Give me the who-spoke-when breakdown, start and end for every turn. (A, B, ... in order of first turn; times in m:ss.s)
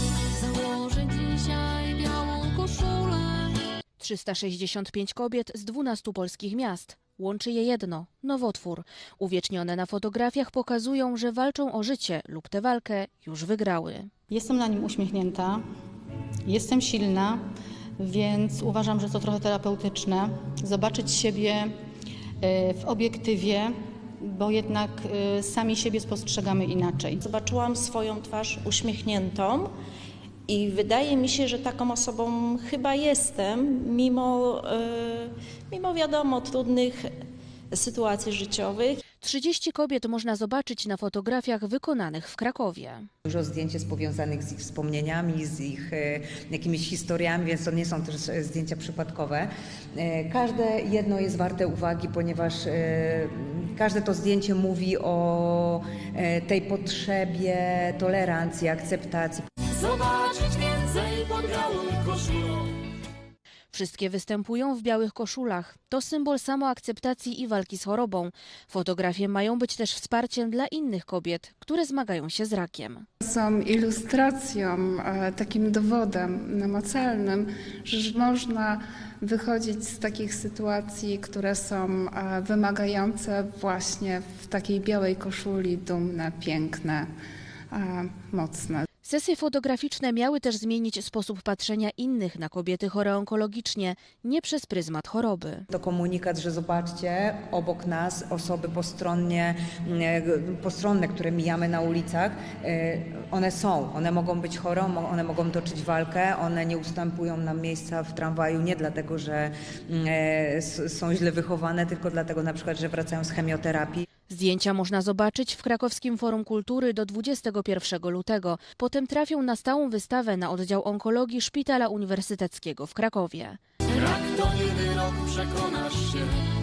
0:00.5-0:03.2 A
0:04.0-0:14.1 B
0:14.3-0:15.6 C
0:16.4-0:17.4 C
0:18.0-0:21.7 C
0:22.4-0:27.2 C
0:27.2-0:29.7 D
0:30.5-0:37.1 D
0:37.7-0:39.0 D
0:39.2-0:43.1 B
0:43.2-0:59.5 E
0:59.7-1:02.7 A
1:03.7-1:13.1 B
1:13.2-1:27.1 F
1:27.7-1:28.8 F
1:29.0-1:35.7 B
1:35.7-1:54.0 E
1:54.3-2:03.6 B
2:03.9-2:06.4 A